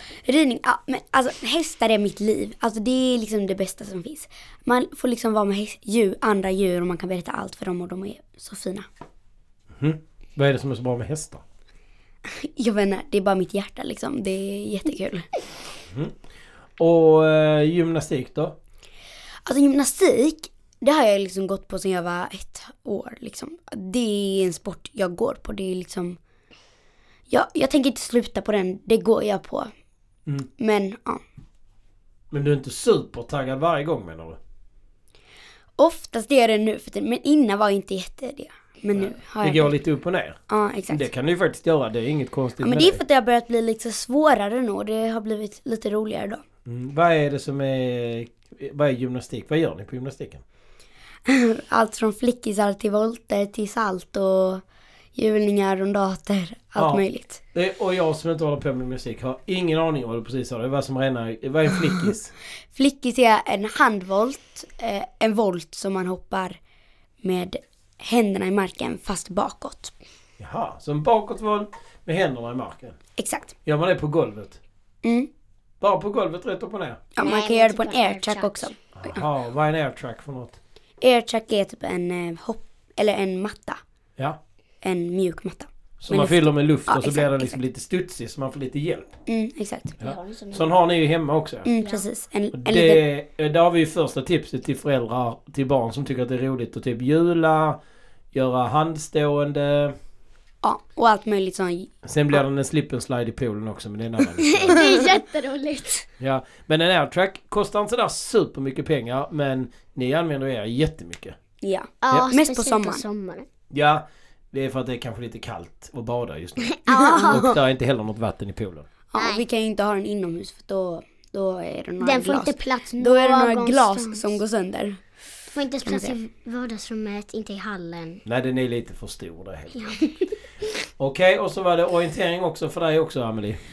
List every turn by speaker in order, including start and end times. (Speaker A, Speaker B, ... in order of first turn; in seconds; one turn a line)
Speaker A: 0.2-8.9
Speaker B: 9.8-11.4
Speaker A: 12.4-15.3
Speaker B: 16.8-18.6
Speaker A: 19.4-26.2
Speaker A: 27.3-29.7
Speaker A: 30.6-31.2
Speaker B: 32.3-34.4
Speaker A: 35.8-39.7
Speaker B: 38.9-40.4
Speaker A: 40.5-41.1
Speaker B: 40.9-43.0
Speaker A: 42.6-46.4
Speaker B: 46.6-50.4
Speaker A: 51.2-54.6
Speaker A: 55.1-57.4
Speaker B: 56.8-62.3
Speaker A: 62.7-66.6
Speaker A: 67.2-69.9
Speaker B: 70.4-73.0
Speaker A: 73.2-73.5
Speaker B: 73.6-74.6
Speaker A: 75.0-75.3
Speaker B: 75.8-77.0
Speaker A: 77.2-79.1
Speaker C: 77.2-78.8
Speaker B: 79.0-80.6
Speaker A: 81.0-83.8
Speaker A: 84.8-87.6
Speaker B: 86.0-89.1
Speaker A: 89.3-89.9
Speaker C: 90.0-90.7
Speaker B: 90.0-91.7
Speaker A: 91.7-93.0
Speaker C: 91.8-92.0
Speaker B: 92.5-97.8
Speaker B: 98.3-100.0
Speaker A: 100.6-102.4
Speaker B: 102.0-104.8
Speaker C: 104.4-106.1
Speaker B: 106.2-111.4
Speaker A: 111.6-113.0
Speaker C: 112.0-113.5
Speaker B: 113.7-118.9
Speaker C: 116.8-117.5
Speaker A: 116.9-117.5
Speaker A: 119.1-125.0
Speaker C: 119.2-119.4
Speaker C: 122.0-124.4
Speaker C: 125.5-128.2
Speaker A: 125.8-126.2
Speaker B: 128.2-129.9
Speaker C: 129.7-130.3
Speaker B: 131.0-133.6